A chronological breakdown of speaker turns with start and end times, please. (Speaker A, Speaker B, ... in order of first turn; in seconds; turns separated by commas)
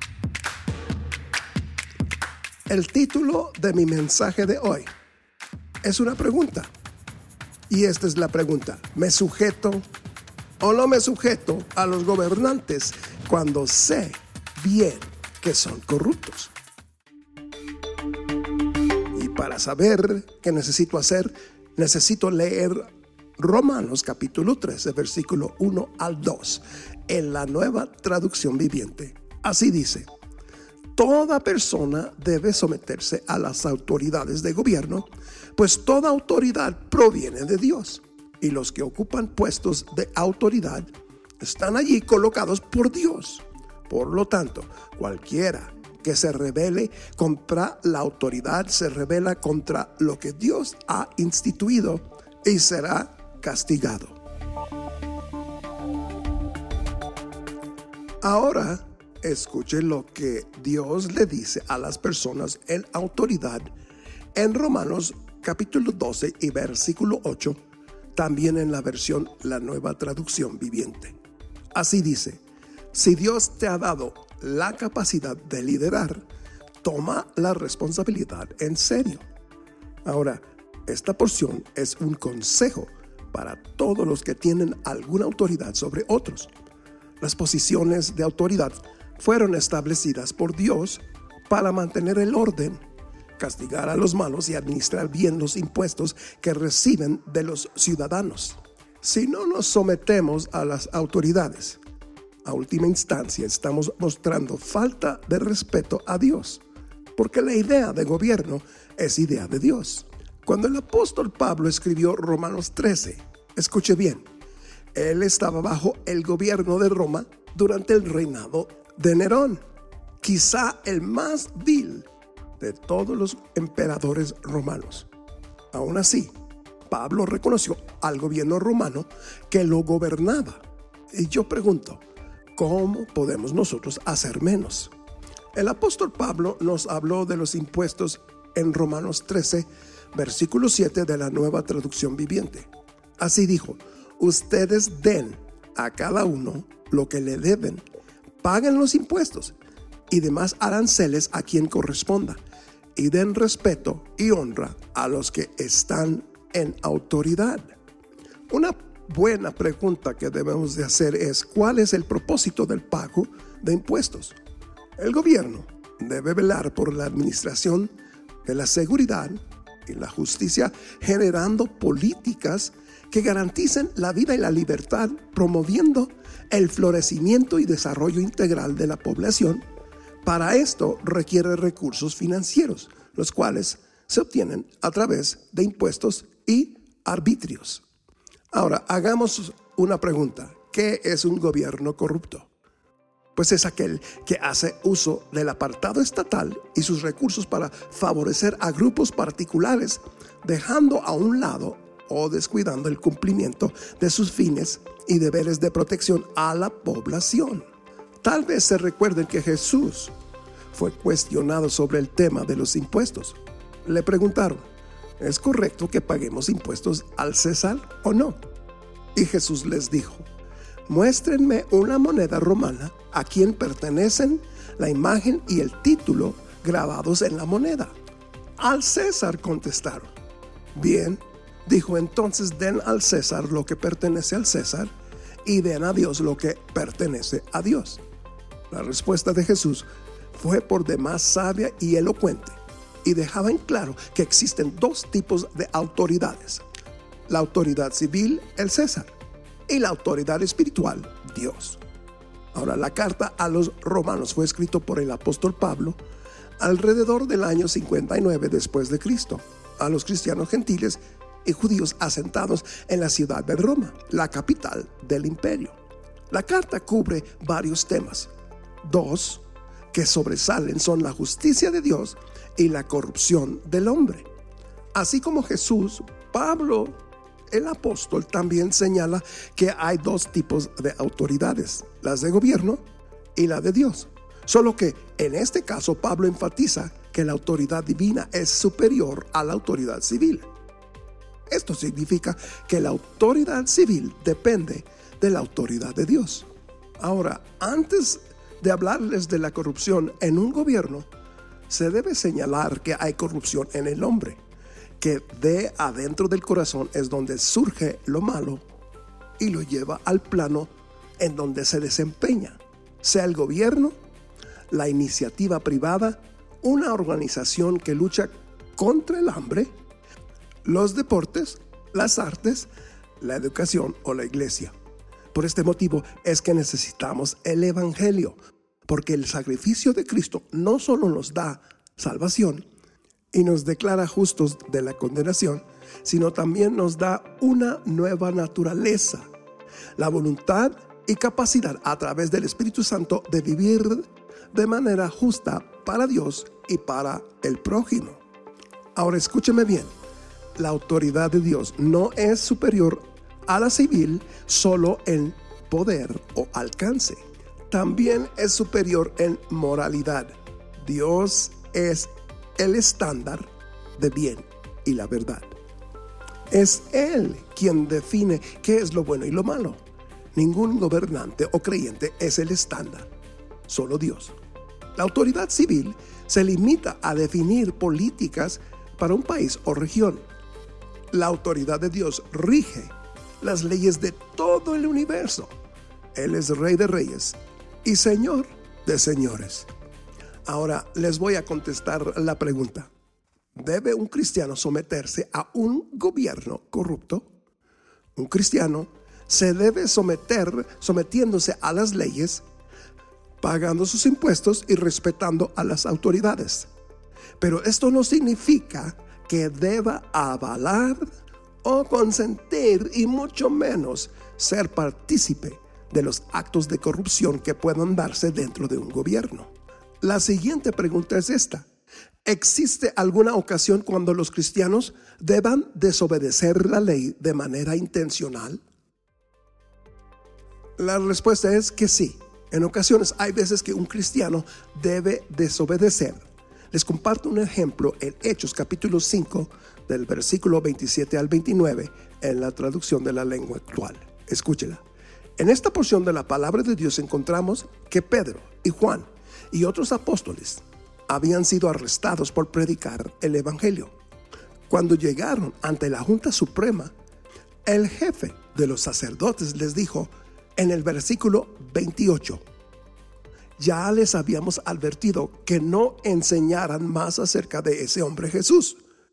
Speaker A: 2.7-4.9, Speaker A: 5.8-6.7, Speaker A: 7.7-9.8, Speaker A: 10.6-16.5, Speaker A: 19.1-30.1, Speaker A: 30.9-54.2, Speaker A: 58.2-63.7, Speaker A: 64.3-67.6, Speaker A: 68.1-71.2, Speaker A: 71.7-76.2, Speaker A: 76.8-79.2, Speaker A: 80.0-86.5, Speaker A: 87.2-92.8, Speaker A: 93.4-101.8, Speaker A: 102.4-106.6, Speaker A: 107.2-114.2, Speaker A: 114.9-119.6, Speaker A: 120.2-122.1, Speaker A: 122.6-125.1, Speaker A: 125.7-126.3, Speaker A: 126.9-132.0, Speaker A: 132.6-134.9, Speaker A: 135.5-147.8, Speaker A: 148.4-149.6, Speaker A: 150.1-152.4, Speaker A: 152.9-157.8, Speaker A: 158.5-164.4, Speaker A: 165.0-167.9, Speaker A: 168.4-179.6, Speaker A: 180.2-187.8, Speaker A: 188.5-192.5, Speaker A: 193.3-207.7, Speaker A: 208.2-210.1, Speaker A: 210.7-214.7, Speaker A: 215.2-218.4, Speaker A: 219.1-220.2, Speaker A: 220.8-227.9, Speaker A: 228.6-230.1, Speaker A: 230.7-234.9, Speaker A: 235.4-238.0, Speaker A: 238.7-246.6, Speaker A: 247.3-249.1, Speaker A: 249.7-251.8, Speaker A: 252.5-256.0, Speaker A: 256.6-265.8, Speaker A: 266.3-268.3, Speaker A: 268.8-274.3, Speaker A: 274.9-282.8, Speaker A: 283.4-290.5, Speaker A: 291.5-296.5, Speaker A: 297.0-301.1, Speaker A: 301.7-304.4, Speaker A: 305.0-308.6, Speaker A: 309.4-314.0, Speaker A: 314.7-319.8, Speaker A: 320.6-324.8, Speaker A: 325.3-332.7, Speaker A: 333.3-339.3, Speaker A: 340.0-348.2, Speaker A: 348.9-349.9, Speaker A: 350.6-365.5, Speaker A: 366.5-369.8, Speaker A: 370.3-373.1, Speaker A: 373.7-374.4, Speaker A: 374.9-380.2, Speaker A: 381.1-385.5, Speaker A: 386.1-389.7, Speaker A: 390.4-392.9, Speaker A: 393.6-397.3, Speaker A: 398.1-402.5, Speaker A: 403.4-406.7, Speaker A: 407.4-411.1, Speaker A: 411.6-421.7, Speaker A: 422.2-428.6, Speaker A: 430.8-444.8, Speaker A: 445.4-454.0, Speaker A: 454.7-456.9, Speaker A: 457.6-462.4, Speaker A: 463.6-468.8